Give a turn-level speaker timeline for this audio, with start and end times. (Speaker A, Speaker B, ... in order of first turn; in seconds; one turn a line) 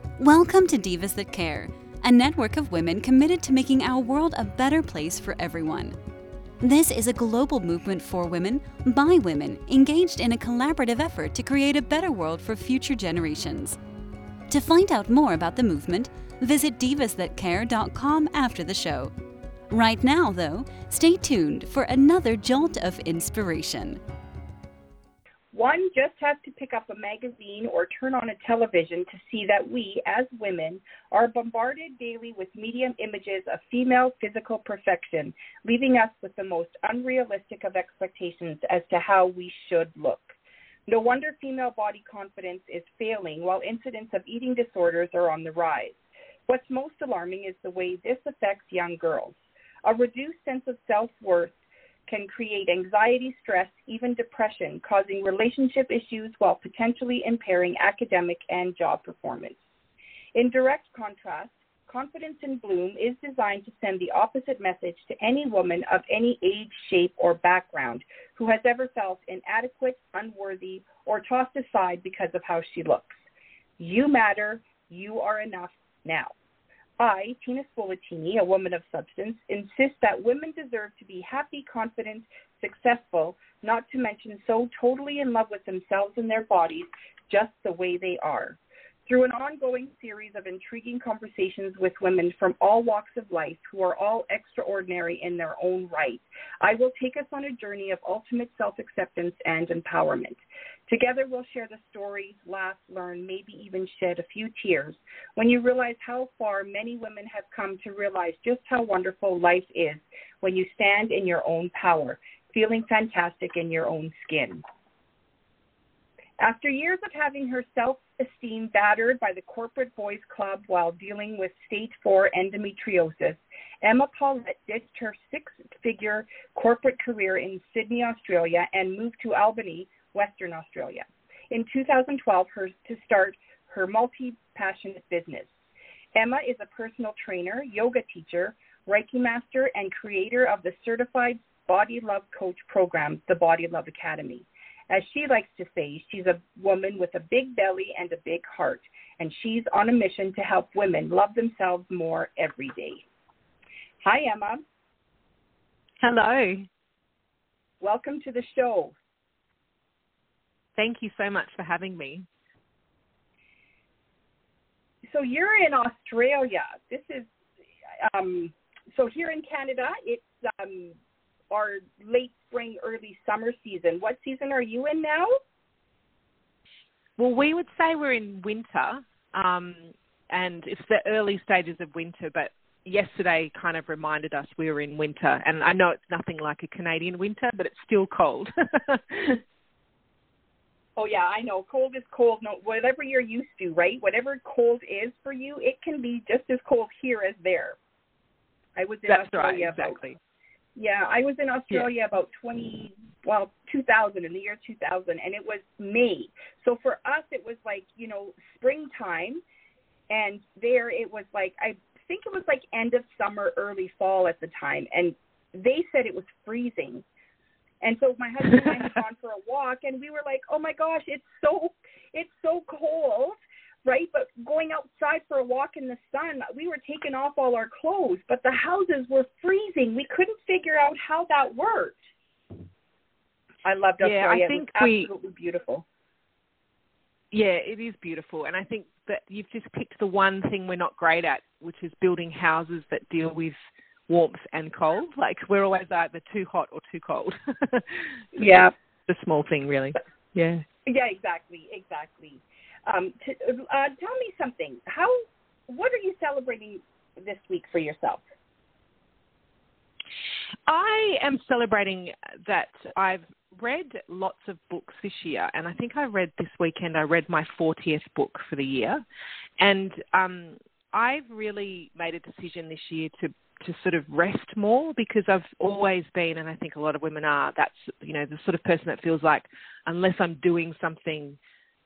Speaker A: 0.2-6.0
Speaker A: 6.6-13.8
Speaker A: 14.5-19.1
Speaker A: 19.7-24.0
Speaker B: 25.5-40.4
Speaker B: 40.9-51.5
Speaker B: 52.1-59.6
Speaker B: 60.3-73.2
Speaker B: 73.8-76.3
Speaker B: 77.0-114.6
Speaker B: 116.4-135.5
Speaker B: 136.2-153.1
Speaker B: 154.0-154.7
Speaker C: 156.0-156.7
Speaker B: 157.8-158.9
Speaker C: 160.8-162.3
Speaker B: 165.1-167.3
Speaker B: 168.0-170.9
Speaker B: 171.5-175.3
Speaker C: 177.2-189.4
Speaker B: 191.0-197.8
Speaker B: 198.8-200.0
Speaker C: 199.1-200.2
Speaker B: 200.8-209.4
Speaker B: 210.1-217.0
Speaker B: 217.8-232.0
Speaker C: 218.5-218.8
Speaker B: 233.6-235.8
Speaker C: 234.0-235.1
Speaker C: 237.3-243.6
Speaker C: 244.1-250.6
Speaker B: 248.4-248.7
Speaker B: 250.8-258.2
Speaker C: 260.7-269.0
Speaker C: 269.6-281.4